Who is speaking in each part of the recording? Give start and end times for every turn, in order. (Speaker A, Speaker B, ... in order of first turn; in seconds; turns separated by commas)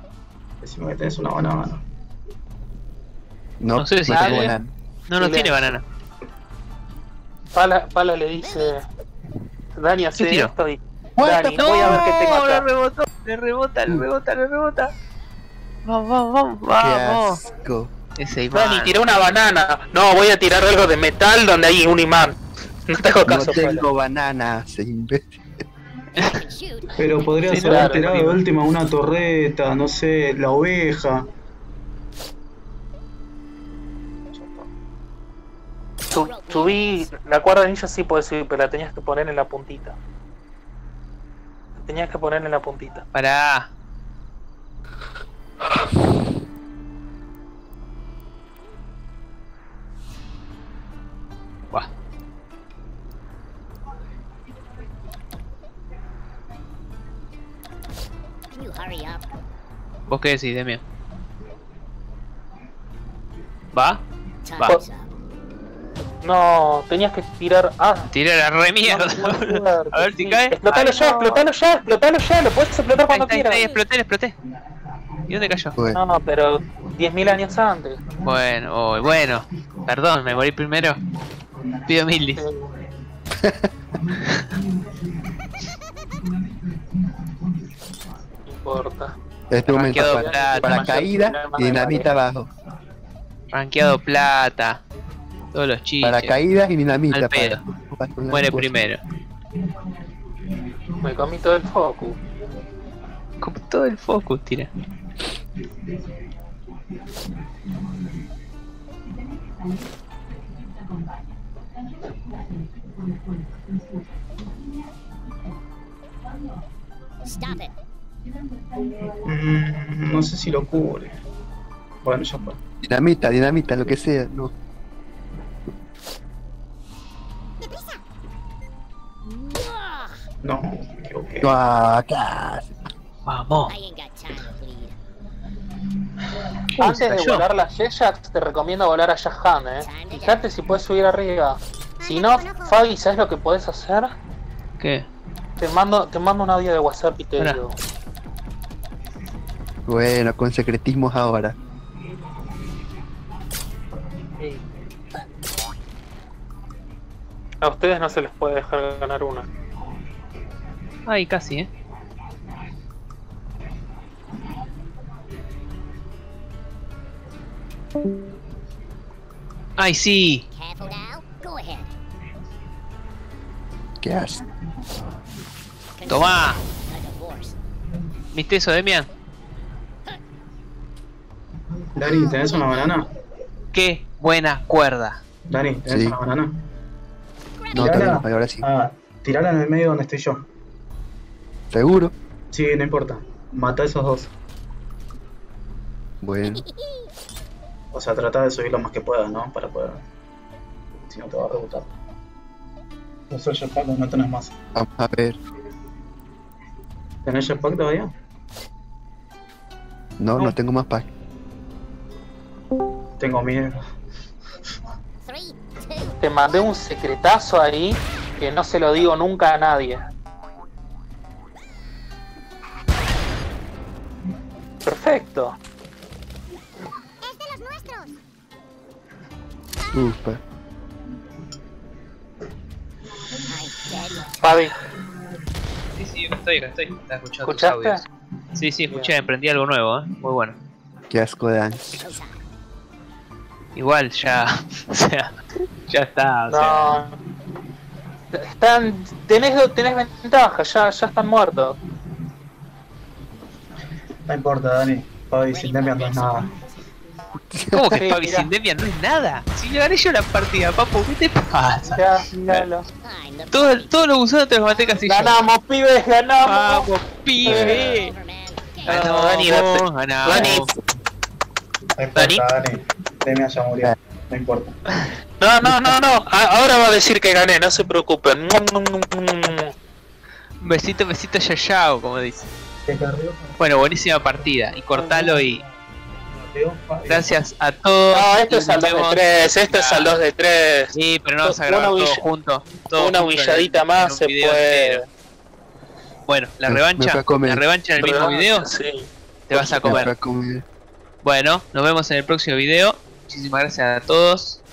Speaker A: 0.6-1.8, Speaker B: 3.6-4.7, Speaker C: 3.8-5.8, Speaker D: 5.2-5.8, Speaker D: 7.5-8.8, Speaker E: 8.4-8.8, Speaker D: 9.8-12.7, Speaker C: 10.2-10.5, Speaker B: 11.2-12.0, Speaker C: 11.2-14.9, Speaker C: 15.9-17.4, Speaker B: 16.8-17.9, Speaker C: 18.2-18.9, Speaker D: 18.5-23.9, Speaker B: 23.3-25.4, Speaker C: 26.2-26.4, Speaker E: 26.2-27.4, Speaker A: 27.0-31.3, Speaker C: 27.5-28.4, Speaker D: 27.6-28.2, Speaker A: 34.3-34.7, Speaker D: 36.1-40.0, Speaker E: 36.1-37.1, Speaker D: 41.9-43.1, Speaker C: 43.1-43.7, Speaker E: 58.5-59.2, Speaker C: 60.1-60.8, Speaker C: 63.7-64.0, Speaker E: 64.5-65.1, Speaker D: 66.2-68.1, Speaker C: 68.1-71.4, Speaker D: 68.8-73.7, Speaker C: 73.1-74.4, Speaker C: 75.3-75.8, Speaker D: 75.9-78.0, Speaker C: 78.2-81.0, Speaker C: 81.8-82.4, Speaker D: 82.3-82.7, Speaker B: 83.4-83.7, Speaker C: 84.2-84.5, Speaker D: 88.5-89.1, Speaker B: 89.5-92.5, Speaker D: 89.7-92.1, Speaker C: 89.7-91.0, Speaker C: 93.5-94.8, Speaker C: 95.5-96.4, Speaker B: 96.0-98.7, Speaker C: 97.1-97.6, Speaker C: 98.3-99.0, Speaker D: 101.0-102.2, Speaker C: 103.4-104.7, Speaker E: 117.2-117.7, Speaker A: 119.2-121.2, Speaker A: 122.0-122.6, Speaker B: 122.8-124.5, Speaker E: 129.2-130.2, Speaker A: 130.4-131.5, Speaker B: 131.4-132.7, Speaker C: 133.3-133.7, Speaker E: 133.7-134.9, Speaker C: 136.8-137.4, Speaker D: 136.8-144.2, Speaker E: 139.8-140.4, Speaker C: 144.8-145.1, Speaker D: 145.6-147.8, Speaker B: 149.9-151.6, Speaker D: 157.6-159.5, Speaker C: 161.1-161.7, Speaker C: 169.8-170.4, Speaker E: 170.5-171.9, Speaker B: 174.0-174.4, Speaker E: 176.0-177.6, Speaker C: 176.1-176.6, Speaker C: 178.3-179.1, Speaker A: 182.0-183.1, Speaker E: 182.0-182.9, Speaker C: 183.7-185.2, Speaker A: 185.5-186.6, Speaker B: 185.9-186.2, Speaker E: 187.6-188.2, Speaker B: 187.7-188.7, Speaker A: 187.8-190.5, Speaker B: 191.7-192.1, Speaker A: 192.5-194.3, Speaker B: 196.2-196.6, Speaker A: 197.9-200.1, Speaker A: 201.0-201.9, Speaker A: 203.3-204.6, Speaker B: 204.8-205.4, Speaker A: 207.3-208.1, Speaker B: 210.2-211.1, Speaker A: 213.2-213.8, Speaker E: 215.2-216.2, Speaker D: 216.2-220.1, Speaker D: 224.9-225.6, Speaker B: 229.9-230.4, Speaker E: 233.5-234.7, Speaker D: 234.4-234.8, Speaker C: 236.0-238.0, Speaker D: 237.4-238.0, Speaker C: 238.6-240.6, Speaker D: 238.9-239.1, Speaker B: 241.1-242.1, Speaker E: 241.9-242.4, Speaker C: 243.8-245.3, Speaker C: 245.9-247.0, Speaker D: 246.5-247.2, Speaker D: 248.3-251.8, Speaker A: 254.3-256.5, Speaker E: 255.5-256.9, Speaker B: 257.4-257.8, Speaker C: 257.7-262.7, Speaker D: 257.9-258.5, Speaker D: 261.9-262.9, Speaker E: 263.0-264.1, Speaker C: 263.5-265.4, Speaker E: 264.6-265.0, Speaker D: 265.1-266.9, Speaker C: 266.4-268.1, Speaker E: 267.4-269.0, Speaker D: 267.4-268.0, Speaker D: 268.9-270.7, Speaker C: 268.9-270.7, Speaker A: 272.0-274.8, Speaker C: 272.2-272.4, Speaker D: 275.4-279.7, Speaker B: 275.6-276.0, Speaker C: 280.6-282.5, Speaker A: 282.9-283.6, Speaker C: 283.6-285.6, Speaker A: 284.9-285.7, Speaker A: 286.3-287.3, Speaker C: 287.1-290.2, Speaker D: 288.1-292.2, Speaker C: 290.9-295.0, Speaker D: 292.9-295.1, Speaker C: 296.3-298.7, Speaker B: 296.6-297.6, Speaker D: 298.0-300.1, Speaker C: 299.5-300.1, Speaker B: 299.8-300.6, Speaker C: 301.2-304.6